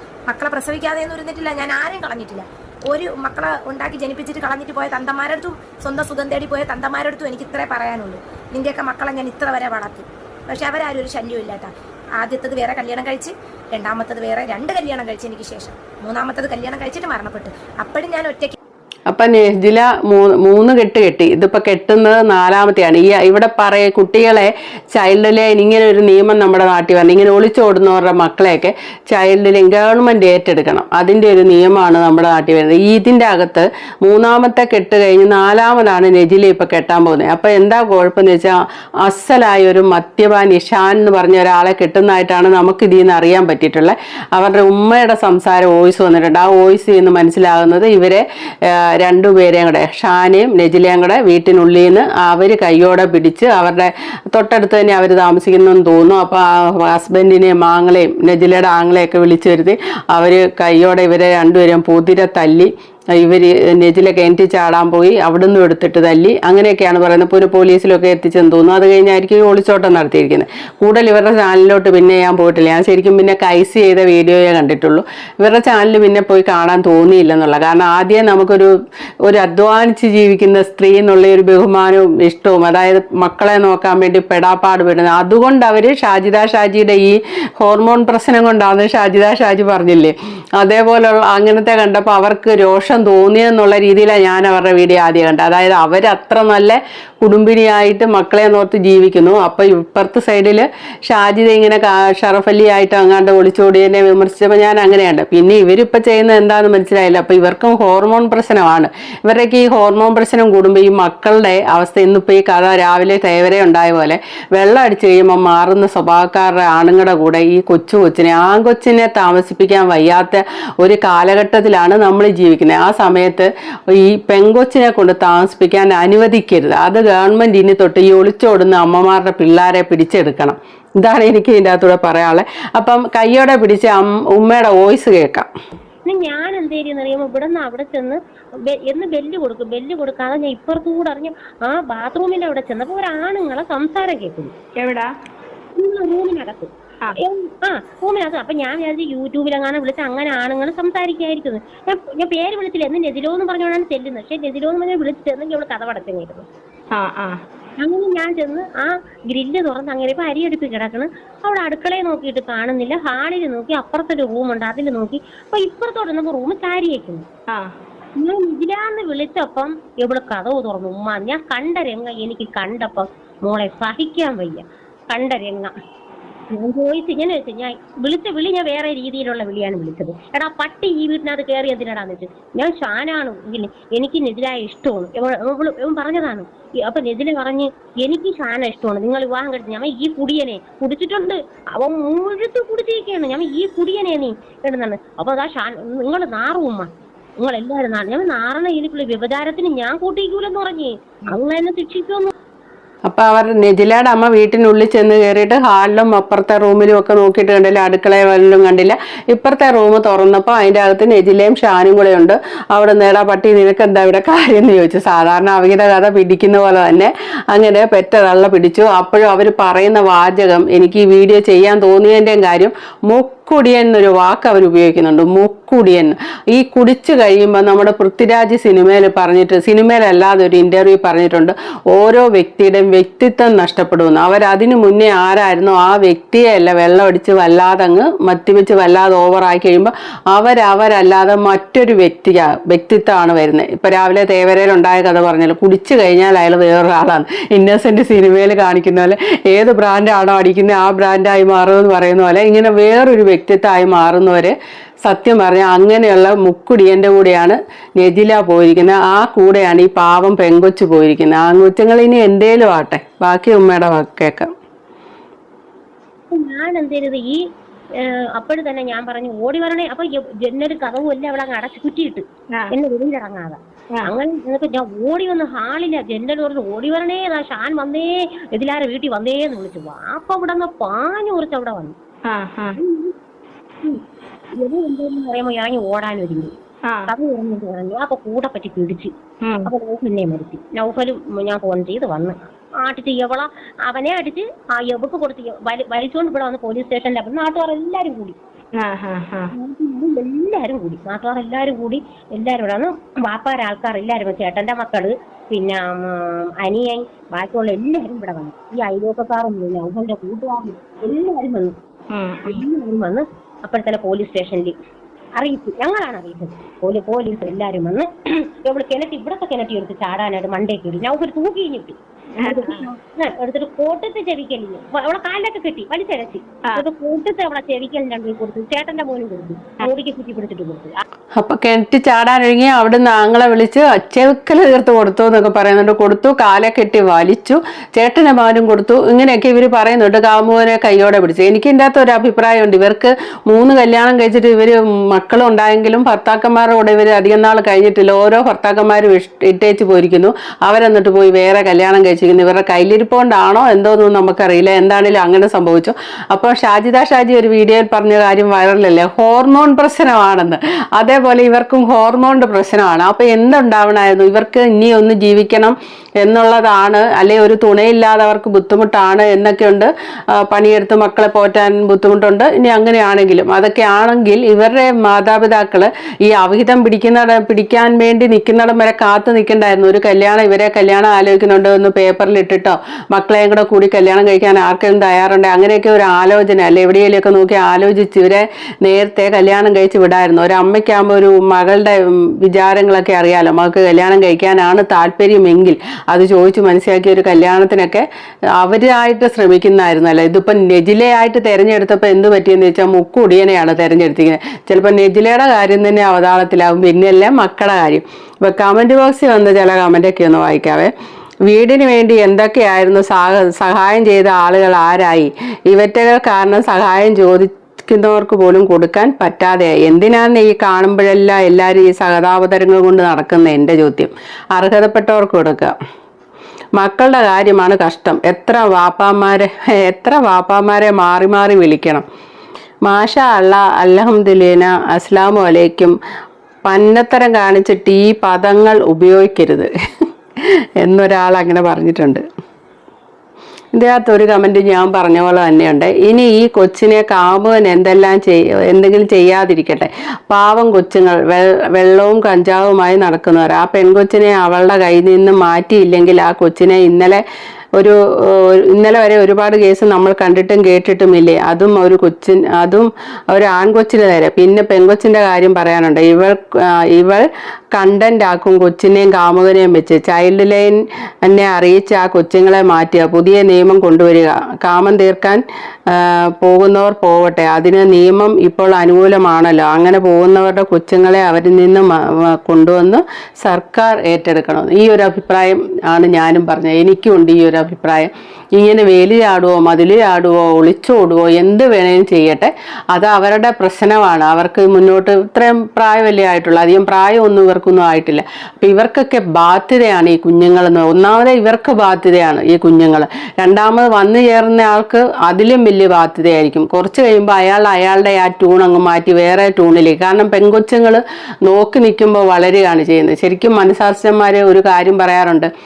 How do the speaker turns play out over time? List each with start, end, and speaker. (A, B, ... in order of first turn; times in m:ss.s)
0:00.3-0:18.6 A
0:19.1-1:18.7 B
1:19.2-2:15.5 B
2:16.1-2:24.5 C
2:24.8-2:25.1 D
2:25.8-2:36.5 C
2:37.0-2:37.4 D
2:37.8-2:47.2 C
2:48.2-2:55.7 C
2:56.5-3:16.9 C
3:17.4-3:22.3 C
3:23.1-4:14.6 B
4:15.1-4:24.5 B
4:26.3-4:27.4 C
4:28.0-4:42.0 C
4:42.3-4:42.8 D
4:42.8-4:43.2 C
4:44.6-4:46.5 C
4:47.1-4:49.1 C
4:49.5-4:49.7 D
4:49.6-4:58.4 C
4:58.8-4:59.5 D
4:59.6-5:11.8 C
5:12.2-5:12.6 D
5:12.5-5:14.7 C
5:15.4-5:18.1 C
5:18.6-5:31.0 C
5:22.4-5:22.9 D
5:31.4-6:38.0 B
6:38.6-6:50.9 B
6:51.5-7:05.8 B
7:06.8-7:12.0 B
7:12.8-7:16.0 B
7:16.7-7:19.7 B
7:20.8-7:22.2 B
7:23.7-7:37.2 B
7:37.8-8:35.5 B